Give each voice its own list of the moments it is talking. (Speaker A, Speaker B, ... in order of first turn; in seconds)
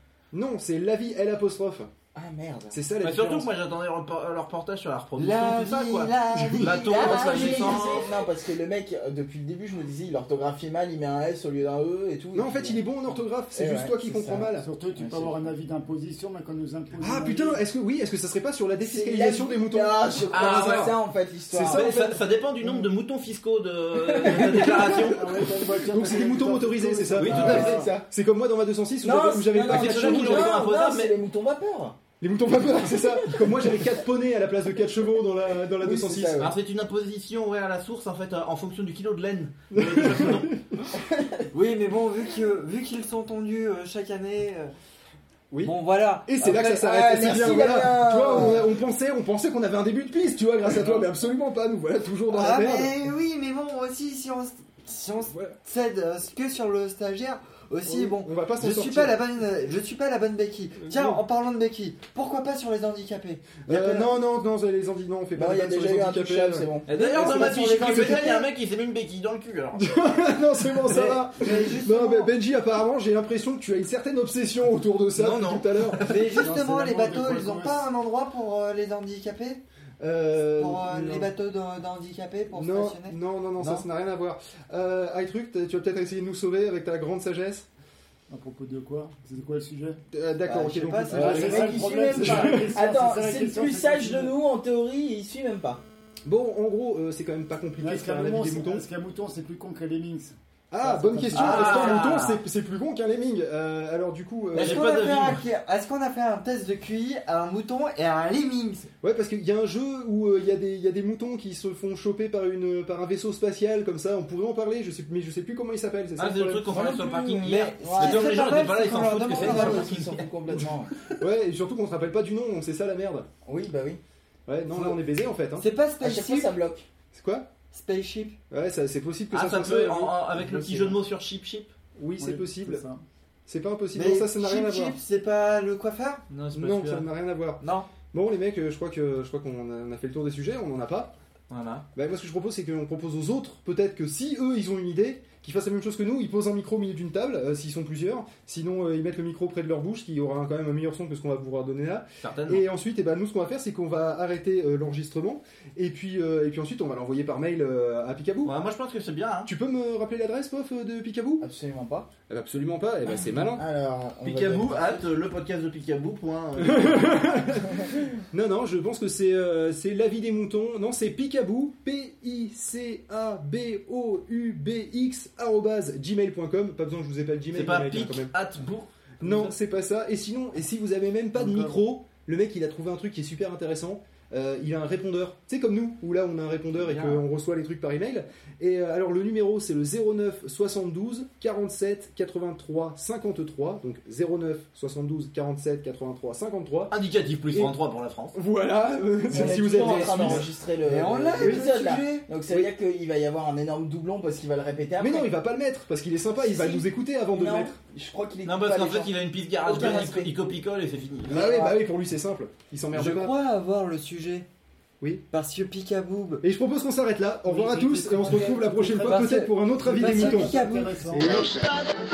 Speaker A: 0.3-1.9, 2.7-3.5, 6.3-6.8, 12.3-14.7, 17.0-21.0, 21.5-22.9, 25.9-30.6, 32.2-36.4, 39.7-40.6, 45.5-53.0, 55.2-55.6, 57.9-59.2, 60.8-61.2, 63.7-68.3, 69.7-76.3, 80.0-81.3, 82.5-87.7, 90.1-92.8, 96.2-98.9, 100.7-104.8, 109.0-116.7, 120.5-123.3, 124.5-125.7, 127.1-127.5, 128.5-130.2, 132.0-132.9, 133.5-135.0, 136.5-141.1, 141.9-158.5, 159.4-161.5, 162.3-163.7, 166.6-178.3, 179.2-196.9, 197.5-197.8, 198.3-200.5, 201.4-201.8, 205.0-207.8, 211.3-213.4, 216.4-220.6
Speaker B: 2.1-2.8, 6.9-12.8, 13.5-15.4, 18.8-21.8, 24.1-24.7, 27.3-28.1, 29.0-32.0, 33.0-33.9, 35.8-36.5, 41.0-41.5, 46.8-48.6, 65.3-68.5, 90.5-95.8, 116.7-118.3, 119.3-120.9, 123.5-124.0, 126.0-126.9, 130.4-131.0, 161.4-162.1, 163.4-165.0, 199.3-205.3, 206.4-209.1, 209.7-210.3, 211.3-211.8
Speaker C: 3.0-8.1, 20.3-20.9, 21.7-25.3, 27.1-27.8, 29.7-31.2, 36.4-40.5, 66.9-69.8, 75.1-76.5, 101.3-102.4, 104.5-105.5, 116.2-120.2, 129.3-131.7, 136.3-137.1, 141.6-141.8, 152.2-152.7, 158.4-159.5, 164.2-167.2, 177.5-179.6, 181.4-181.7, 186.7-187.2, 196.9-198.4, 208.4-211.4
Speaker D: 5.2-8.0, 41.5-44.7, 45.6-46.8, 52.3-64.1, 70.8-72.3, 76.1-79.6, 80.3-83.9, 90.5-91.7, 104.5-108.9, 117.5-120.3, 124.7-125.0, 125.6-126.5, 127.7-128.4, 133.9-136.2, 137.6-137.9, 199.4-202.3, 212.9-214.5, 215.3-216.4, 219.0-221.5
Speaker E: 14.6-17.7, 24.2-27.9, 76.4-77.9, 88.3-90.0, 91.1-94.4, 97.8-102.1, 132.2-133.1, 217.4-219.2, 219.8-221.4